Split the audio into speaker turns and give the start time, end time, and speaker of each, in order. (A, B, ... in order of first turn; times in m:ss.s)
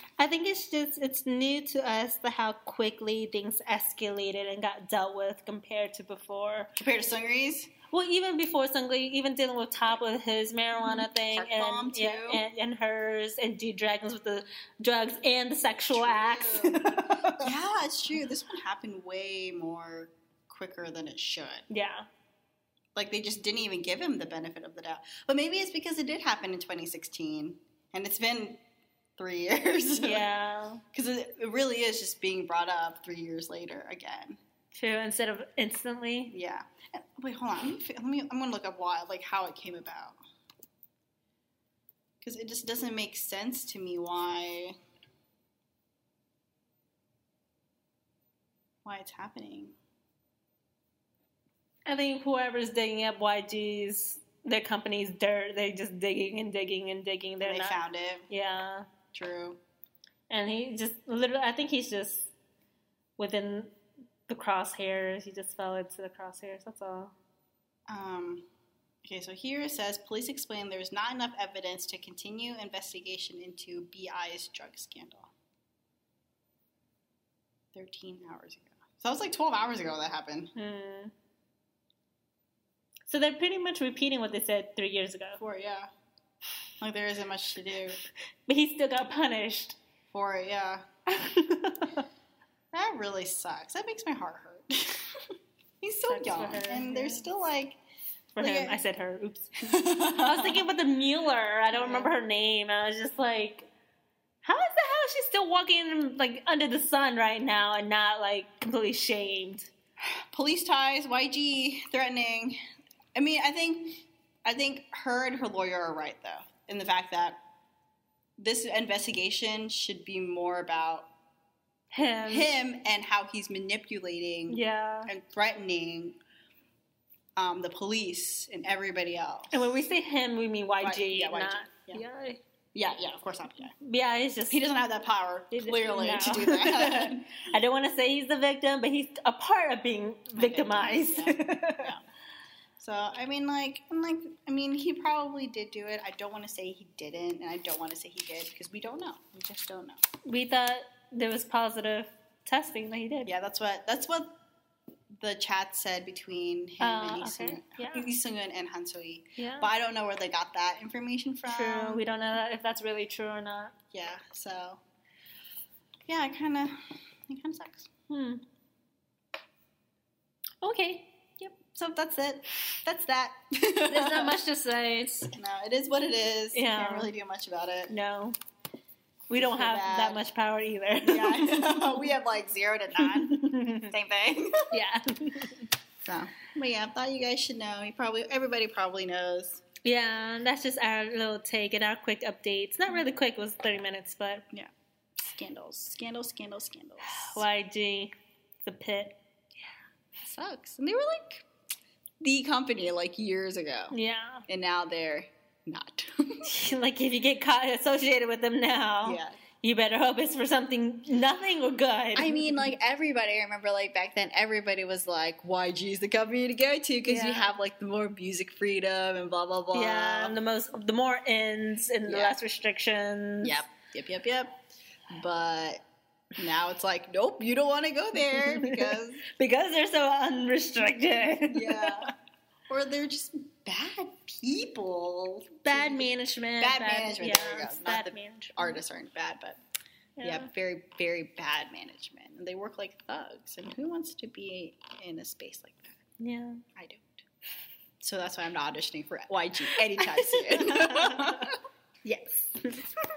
0:00.2-0:06.7 A
0:06.8-0:07.7 B
0:07.9-0:17.5 A
0:10.8-0:12.4 B
0:15.9-0:21.6 B
0:21.7-0:22.1 A
0:23.0-0:28.6 B
0:29.2-0:30.3 B
0:30.0-0:30.8 A
0:30.9-0:34.4 B
0:34.7-0:36.4 A
0:36.3-0:40.2 B
0:42.2-0:44.8 B
0:48.8-0:49.8 B
0:51.9-0:58.9 A
0:57.4-0:58.3 B
0:59.1-0:59.6 B
1:00.3-1:02.3 A
1:03.2-1:03.8 A
1:04.3-1:07.1 A
1:07.9-1:08.5 B
1:09.0-1:15.3 B
1:17.7-1:20.5 B
1:20.6-1:21.1 A
1:23.1-1:25.4 A
1:25.4-1:25.9 B
1:26.8-1:28.0 B
1:28.5-1:29.8 A
1:30.1-1:30.8 B
1:31.1-1:32.0 A
1:32.7-1:35.1 B
1:35.8-1:37.8 B
1:36.1-1:37.3 A
1:38.4-1:43.7 A
1:38.4-1:38.8 B
1:39.7-1:40.7 B
1:41.7-1:42.1 B
1:44.4-1:49.7 A
1:50.0-1:52.6 B
1:53.2-1:57.4 B
1:58.4-2:01.1 B
2:01.9-2:02.5 A
2:02.3-2:06.2 B
2:04.5-2:05.1 A
2:07.4-2:09.7 B
2:09.5-2:12.4 A
2:10.8-2:12.0 B
2:12.8-2:13.7 B
2:13.8-2:14.6 A
2:14.5-2:17.3 B
2:15.5-2:21.9 A
2:20.4-2:22.0 B
2:22.8-2:30.0 B
2:30.2-2:33.3 A
2:33.2-2:34.4 B
2:35.2-2:42.0 B
2:36.8-2:38.1 A
2:39.4-2:39.7 A
2:41.5-2:43.7 A
2:43.9-2:44.8 B
2:46.1-2:47.9 B
2:48.1-2:48.4 A
2:50.6-2:51.1 A
2:51.4-2:54.4 B
2:53.9-2:55.3 A
2:55.4-2:57.9 B
2:56.5-2:57.1 A
2:57.9-2:58.4 A
2:59.3-3:02.0 A
2:59.4-3:00.2 B
3:01.1-3:04.7 B
3:03.0-3:03.9 A
3:04.7-3:05.7 A
3:06.0-3:09.6 B
3:09.8-3:14.4 A
3:14.5-3:17.4 B
3:17.1-3:19.2 A
3:20.2-3:21.5 B
3:22.2-3:23.9 B
3:23.9-3:24.4 A
3:24.5-3:26.5 B
3:26.4-3:32.7 A
3:29.0-3:29.4 B
3:32.2-3:40.4 B
3:37.1-3:37.5 A
3:39.7-3:43.6 A
3:42.1-3:42.4 B
3:43.4-3:44.6 B
3:45.1-3:45.8 B
3:46.4-3:49.2 B
3:48.2-3:52.1 A
3:51.5-3:52.1 B
3:52.7-3:56.1 B
3:55.6-3:58.8 A
3:56.6-3:59.6 B
4:00.2-4:00.5 A
4:00.2-4:06.0 B
4:06.2-4:06.6 A
4:06.8-4:07.2 B
4:08.0-4:11.6 B
4:09.8-4:11.5 A
4:12.0-4:12.8 A